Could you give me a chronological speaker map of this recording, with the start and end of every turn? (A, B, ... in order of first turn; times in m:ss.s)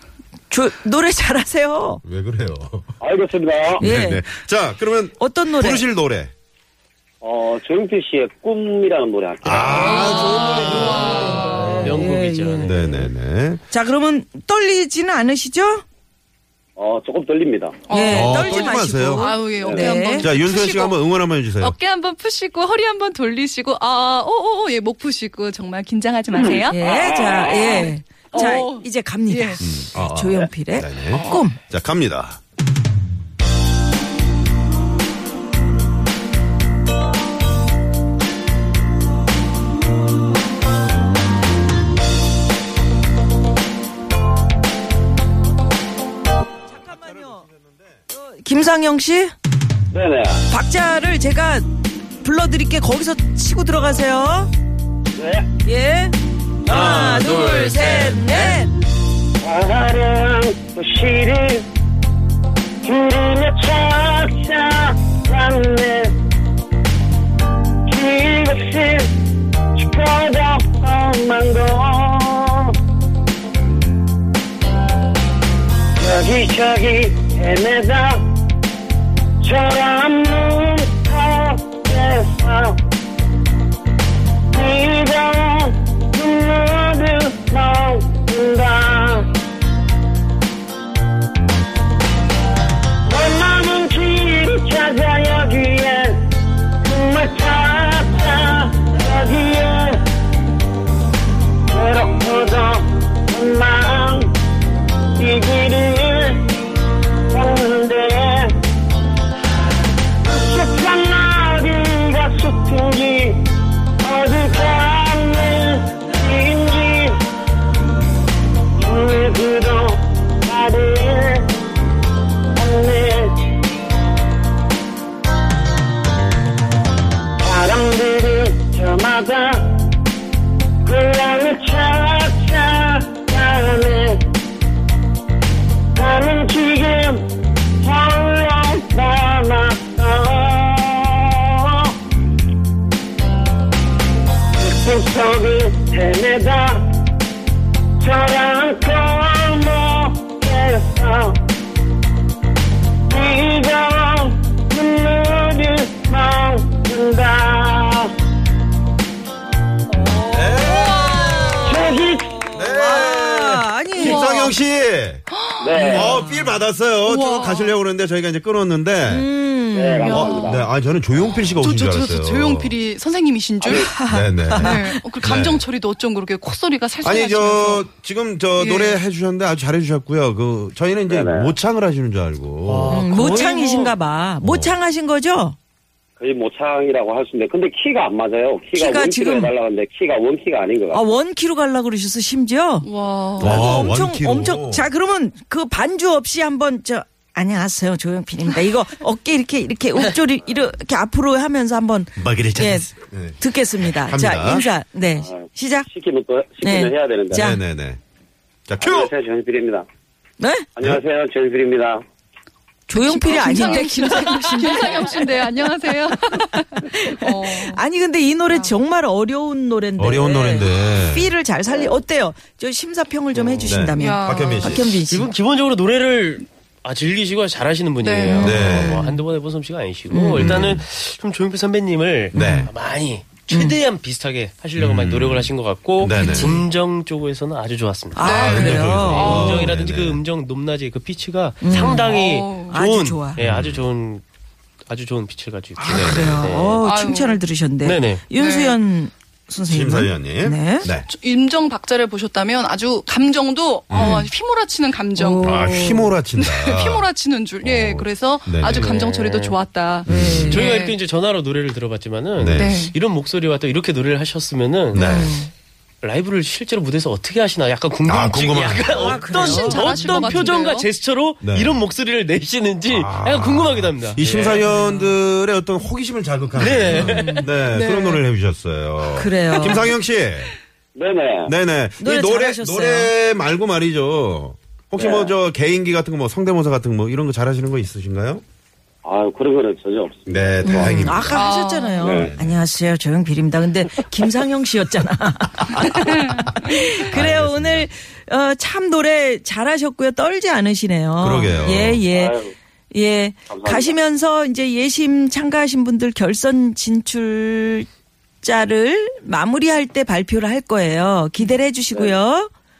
0:00.5-0:02.0 A
0:02.0-0:02.9 B
0:03.0-0:03.8 C
0:03.8-0:06.3 B
0:03.8-0:04.2 A
0:05.2-0:05.8 A
0:07.2-0:10.3 C
0:09.4-0:12.0 B
0:09.7-0:11.7 D
0:09.8-0:13.1 A
0:11.8-0:12.6 E
0:12.6-0:13.6 B
0:13.7-0:15.8 A
0:16.8-0:17.8 C
0:17.9-0:21.0 D
0:17.9-0:20.3 A
0:18.1-0:19.4 B
0:19.6-0:19.9 C
0:20.2-0:21.8 B
0:21.6-0:26.8 D
0:26.3-0:28.6 C
0:26.7-0:31.6 A
0:27.5-0:29.6 D
0:29.6-0:32.4 B
0:31.1-0:31.5 D
0:46.7-0:47.4 A
0:46.8-0:48.0 B
0:48.1-0:49.3 A
0:49.9-0:50.4 C
0:50.5-0:51.7 A
0:52.2-0:54.5 A
0:55.2-0:55.5 C
0:55.6-0:58.7 A
0:56.6-0:58.7 B
0:59.4-1:01.6 C
1:02.8-1:06.2 C
1:07.9-1:09.1 C
1:09.7-1:12.7 C
1:16.0-1:18.2 C
1:19.4-1:22.8 C
1:24.5-1:29.3 C
1:33.0-1:36.3 C
1:36.8-1:40.0 C
1:41.7-1:44.3 C
1:45.2-1:46.5 C
1:47.3-1:48.6 C
1:50.2-1:53.5 C
1:54.0-1:57.1 C
1:58.8-2:01.5 C
2:02.6-2:03.4 C
2:07.4-2:09.7 C
2:10.8-2:14.2 C
2:16.0-2:17.3 C
2:17.8-2:22.0 C
2:24.6-2:26.8 C
2:28.0-2:31.4 C
2:33.1-2:38.1 C
2:40.0-2:44.5 A
2:40.3-2:41.1 B
2:40.7-2:41.6 D
2:41.6-2:42.4 C
2:42.5-2:45.2 B
2:44.0-2:44.5 D
2:45.3-2:46.1 D
2:45.6-2:46.2 C
2:45.8-2:46.5 A
2:45.8-2:49.3 B
2:47.0-2:47.7 D
2:49.1-2:50.5 A
2:49.7-2:50.6 C
2:50.0-2:50.6 D
2:50.4-2:52.8 B
2:51.6-2:54.0 D
2:53.7-2:55.0 A
2:54.1-2:55.6 B
2:54.5-2:57.9 D
2:57.0-3:03.0 B
2:58.6-2:59.0 D
3:01.1-3:01.5 C
3:02.7-3:03.6 E
3:02.9-3:05.6 A
3:04.4-3:04.7 B
3:06.2-3:11.0 C
3:08.7-3:09.5 A
3:10.9-3:25.9 A
3:12.8-3:13.8 D
3:13.4-3:14.9 B
3:22.2-3:24.7 B
3:25.2-3:27.5 C
3:26.6-3:27.6 A
3:27.3-3:28.0 B
3:28.7-3:29.1 B
3:28.8-3:29.8 C
3:30.4-3:30.7 A
3:30.8-3:32.0 C
3:32.9-3:35.3 A
3:32.9-3:37.8 D
3:36.3-3:45.3 A
3:38.5-3:38.7 D
3:40.0-3:41.3 B
3:43.6-3:45.0 B
3:44.0-3:44.8 D
3:45.1-3:58.2 E
3:48.0-3:48.7 D
3:48.4-3:49.0 B
3:48.4-3:49.2 A
3:50.1-3:50.7 A
3:50.3-3:50.8 B
3:52.3-3:52.7 A
3:52.3-3:52.7 B
3:53.5-3:53.8 A
3:54.8-3:56.6 B
3:56.1-3:56.6 A
3:58.2-3:59.7 A
3:58.2-3:59.6 D
3:58.2-4:00.2 B
3:59.1-4:04.2 E
4:01.6-4:02.2 A
4:01.8-4:02.8 D
4:02.7-4:03.4 A
4:03.4-4:03.8 B
4:04.9-4:06.7 E
4:05.8-4:10.9 A
4:05.9-4:06.5 B
4:06.7-4:07.4 D
4:07.8-4:08.2 E
4:08.3-4:08.8 D
4:09.7-4:11.1 B
4:11.0-4:15.8 D
4:13.9-4:14.3 B
4:14.0-4:14.2 A
4:15.2-4:16.1 A
4:15.4-4:17.0 B
4:16.4-4:21.0 D
4:17.6-4:18.9 B
4:18.7-4:19.6 E
4:20.1-4:20.7 B
4:20.1-4:20.7 A
4:20.6-4:25.0 E
4:22.4-4:22.9 B
4:22.5-4:22.9 D
4:24.9-4:25.3 B
4:24.9-4:25.5 A
4:26.0-4:34.6 E
4:28.0-4:29.3 B
4:28.8-4:30.5 A
4:29.2-4:30.9 D
4:31.4-4:31.8 B
4:32.9-4:40.5 B
4:36.6-4:37.2 E
4:36.9-4:37.5 A
4:36.9-4:38.2 D
4:39.2-4:39.9 A
4:40.9-4:41.5 C
4:41.4-4:48.4 B
4:42.0-4:43.1 A
4:45.0-4:45.3 C
4:49.0-4:51.0 C
4:50.3-4:51.4 B
4:50.6-5:02.4 A
4:50.6-4:52.1 D
4:52.0-4:52.3 C
4:52.1-4:52.6 B
4:55.7-4:56.5 B
4:55.9-4:56.9 D
4:57.1-4:57.9 B
5:01.2-5:02.0 B
5:02.1-5:02.5 C
5:02.9-5:07.9 A
5:03.5-5:03.9 C
5:08.4-5:12.5 A